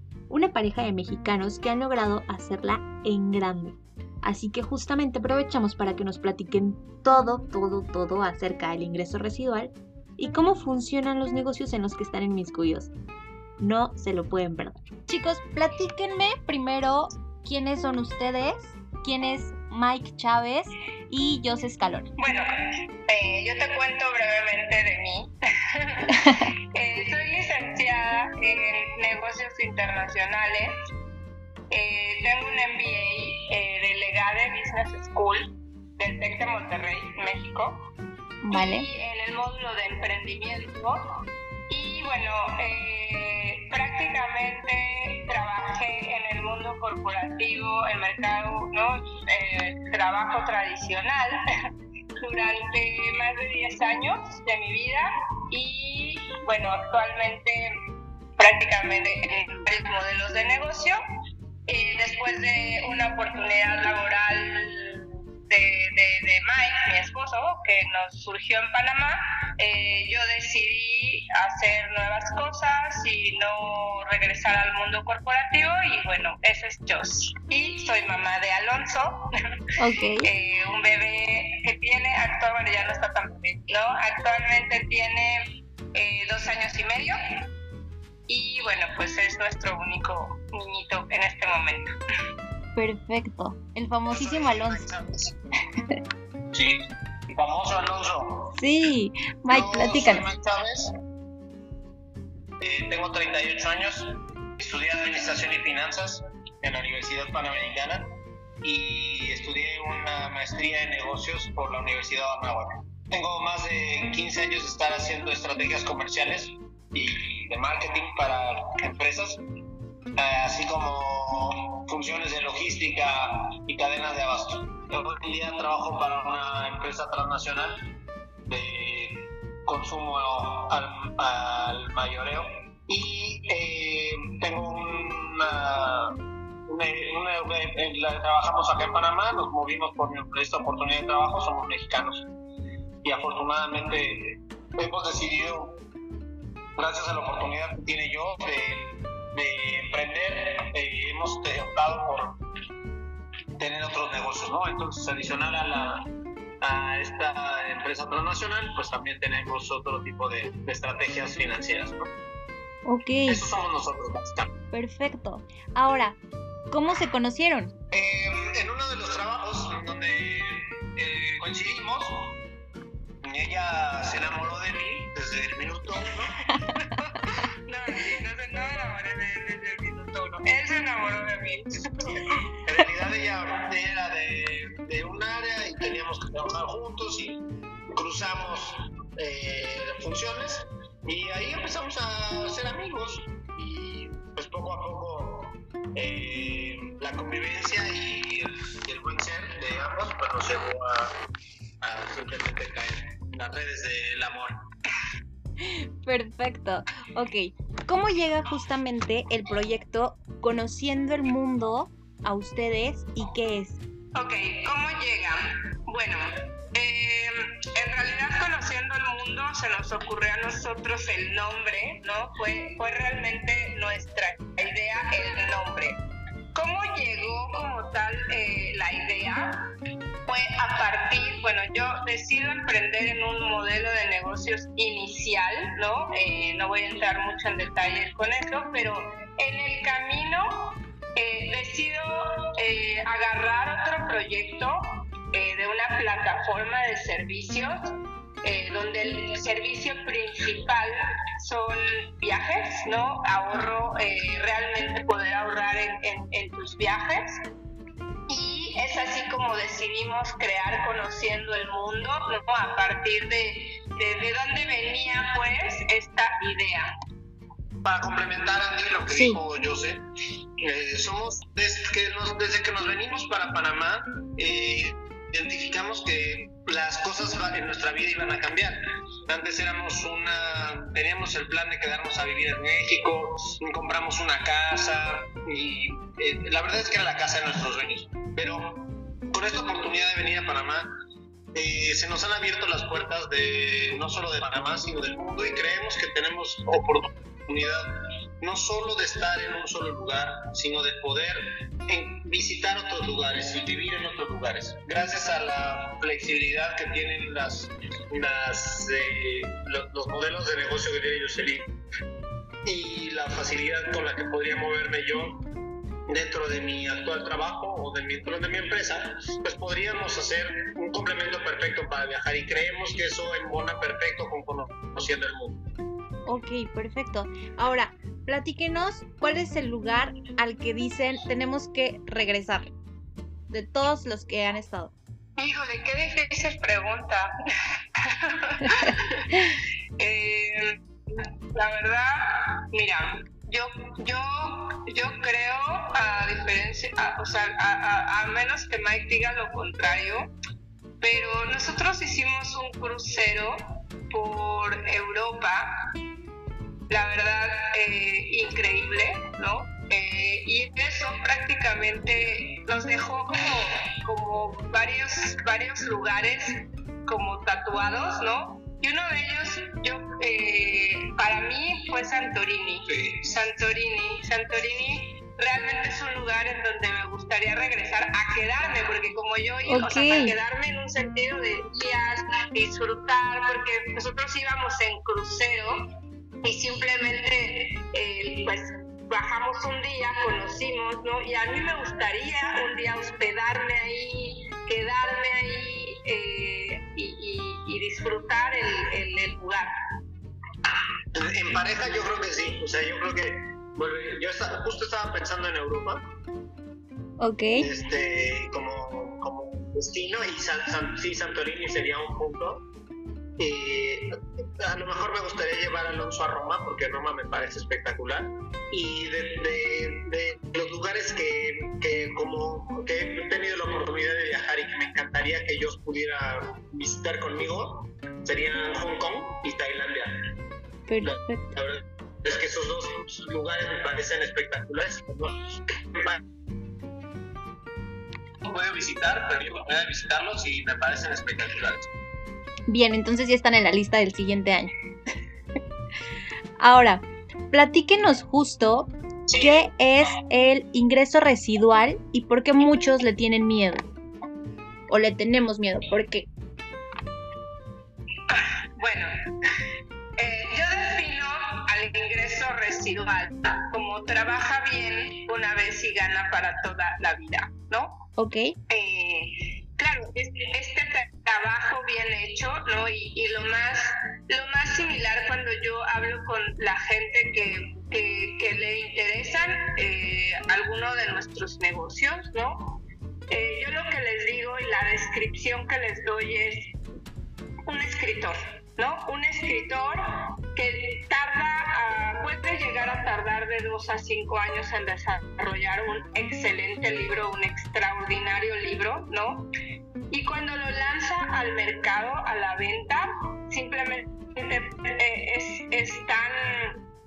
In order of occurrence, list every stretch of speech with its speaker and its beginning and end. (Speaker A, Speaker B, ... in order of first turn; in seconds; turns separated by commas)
Speaker A: 0.3-12.9, Speaker A: 13.6-22.1, Speaker B: 22.2-22.5, Speaker B: 23.1-30.7, Speaker B: 31.7-37.8, Speaker A: 38.4-38.9, Speaker B: 38.5-41.0, Speaker B: 41.7-51.4, Speaker B: 52.2-57.7, Speaker B: 58.4-61.0, Speaker B: 61.7-79.2, Speaker A: 79.8-80.3, Speaker B: 80.2-87.2, Speaker B: 88.3-91.9, Speaker A: 92.8-94.8, Speaker C: 94.1-95.3, Speaker C: 96.5-98.5, Speaker A: 98.6-100.2, Speaker C: 99.5-100.9, Speaker C: 102.6-108.1, Speaker C: 108.6-119.4, Speaker C: 120.2-127.8, Speaker C: 128.4-136.2, Speaker C: 136.7-142.3, Speaker C: 143.0-145.8, Speaker C: 146.8-152.4, Speaker C: 153.6-156.0, Speaker C: 156.6-162.1, Speaker A: 162.8-163.4, Speaker C: 163.2-164.5, Speaker A: 164.7-166.2, Speaker A: 166.7-167.7, Speaker C: 167.9-172.3, Speaker C: 173.2-176.3, Speaker B: 176.6-182.3, Speaker C: 182.7-201.1, Speaker C: 201.8-204.5, Speaker A: 205.6-213.8, Speaker B: 214.1-226.0, Speaker B: 226.5-229.6, Speaker B: 230.2-247.8, Speaker B: 248.4-257.2, Speaker B: 258.3-266.9, Speaker C: 267.8-270.0, Speaker A: 269.1-269.4, Speaker C: 270.6-290.9, Speaker C: 291.5-297.9, Speaker C: 298.4-311.7, Speaker C: 312.6-315.4, Speaker C: 316.1-325.6, Speaker A: 326.2-332.7, Speaker A: 333.5-334.9, Speaker B: 335.4-337.3, Speaker B: 338.1-339.4, Speaker B: 340.0-350.3, Speaker B: 351.0-355.7, Speaker B: 356.9-385.9, Speaker C: 372.9-373.3, Speaker A: 379.7-380.3, Speaker B: 386.4-399.7, Speaker C: 401.1-406.0, Speaker A: 407.2-407.7, Speaker C: 407.6-412.6, Speaker C: 413.4-430.1, Speaker A: 430.9-431.5, Speaker C: 431.0-436.2, Speaker C: 438.4-441.9, Speaker A: 442.7-444.7, Speaker A: 446.6-453.9, Speaker C: 449.3-449.7, Speaker A: 454.9-456.3, Speaker B: 458.3-459.1, Speaker B: 460.2-468.0, Speaker A: 468.2-468.5, Speaker B: 468.7-482.8, Speaker B: 483.3-486.7, Speaker B: 487.7-499.5, Speaker B: 500.1-506.8